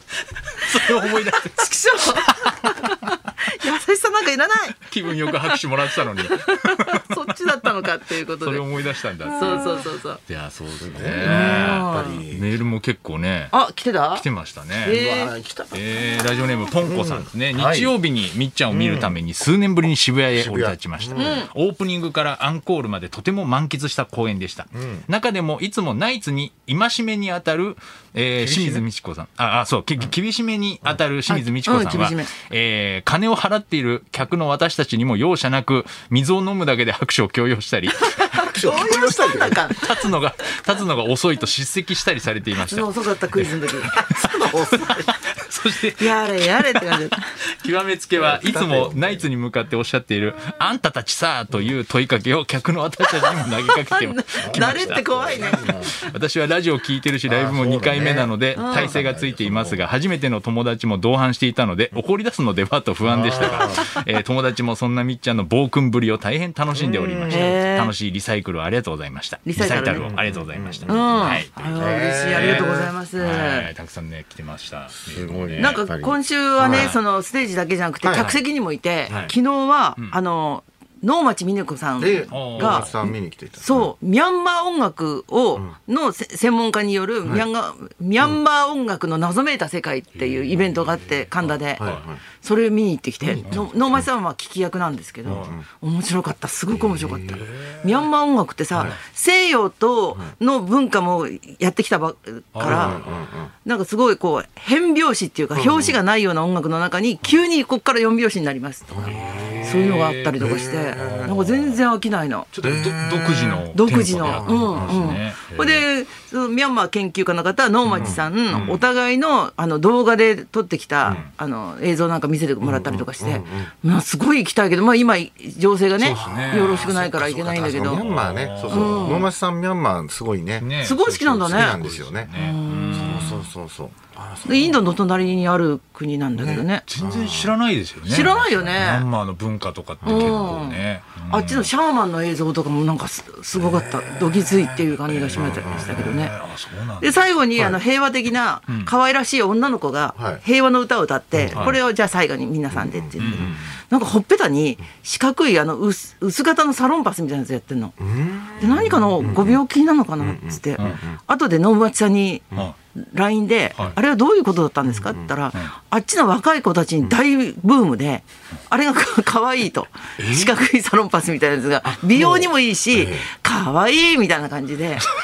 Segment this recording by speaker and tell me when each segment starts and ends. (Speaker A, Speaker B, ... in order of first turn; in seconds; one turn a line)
Speaker A: 0.5-2.7
Speaker B: 0.6-5.6
Speaker A: 4.8-13.5
Speaker B: 6.1-8.7
Speaker B: 9.3-10.2
Speaker C: 10.8-12.5
Speaker B: 11.2-12.2
Speaker B: 13.5-14.2
Speaker A: 14.1-15.0
Speaker B: 14.8-15.3
Speaker C: 14.9-15.8
Speaker A: 15.7-38.1
Speaker C: 16.8-17.9
Speaker C: 18.7-19.2
Speaker C: 20.3-21.4
Speaker B: 21.1-21.5
Speaker C: 24.7-25.1
Speaker C: 28.4-28.8
Speaker B: 31.3-32.3
Speaker B: 38.0-40.0
Speaker C: 38.3-39.6
Speaker A: 39.7-71.5
Speaker B: 42.6-43.9
Speaker C: 43.9-45.1
Speaker B: 46.0-47.2
Speaker C: 48.1-49.3
Speaker B: 53.1-55.9
Speaker C: 54.4-55.9
Speaker C: 57.3-59.9
Speaker B: 58.5-59.0
Speaker C: 63.0-63.9
Speaker C: 66.7-67.6
Speaker B: 67.3-67.9
Speaker B: 69.5-70.1
Speaker C: 69.9-72.9
Speaker B: 70.8-73.7
Speaker A: 72.3-75.8
Speaker C: 74.9-77.0
Speaker B: 75.6-103.0
Speaker A: 76.6-77.0
Speaker C: 78.0-78.4
Speaker A: 79.1-79.3
Speaker C: 82.0-83.9
Speaker A: 82.3-82.9
Speaker A: 90.1-92.0
Speaker C: 91.8-92.2
Speaker C: 93.2-93.7
Speaker A: 93.3-93.6
Speaker A: 95.2-95.5
Speaker C: 95.2-95.7
Speaker C: 96.7-97.4
Speaker A: 97.3-98.0
Speaker A: 102.5-103.2
Speaker C: 102.6-103.5
Speaker B: 103.6-109.1
Speaker C: 105.5-106.0
Speaker C: 108.9-109.7
Speaker A: 109.0-110.4
Speaker B: 109.6-112.5
Speaker C: 110.4-111.7
Speaker A: 110.9-111.4
Speaker A: 112.5-115.8
Speaker C: 112.6-113.6
Speaker B: 113.7-128.1
Speaker C: 114.2-115.2
Speaker A: 117.8-118.8
Speaker C: 118.0-118.7
Speaker C: 122.6-123.7
Speaker A: 126.0-127.0
Speaker C: 126.1-130.7
Speaker A: 127.9-129.3
Speaker B: 128.7-129.3
Speaker A: 130.6-133.4
Speaker B: 130.8-131.8
Speaker C: 131.5-132.3
Speaker B: 132.3-133.4
Speaker C: 132.9-134.9
Speaker B: 134.4-136.8
Speaker C: 136.3-137.5
Speaker A: 136.8-141.7
Speaker B: 138.0-139.0
Speaker C: 140.0-140.5
Speaker B: 140.0-146.3
Speaker A: 144.4-147.2
Speaker C: 145.3-146.2
Speaker B: 147.0-157.9
Speaker C: 150.1-150.4
Speaker C: 151.3-151.8
Speaker A: 151.5-151.8
Speaker C: 152.7-153.6
Speaker A: 153.2-153.8
Speaker C: 158.0-159.6
Speaker B: 158.6-175.1
Speaker C: 160.2-161.2
Speaker C: 164.9-165.3
Speaker A: 170.2-170.5
Speaker C: 172.1-173.3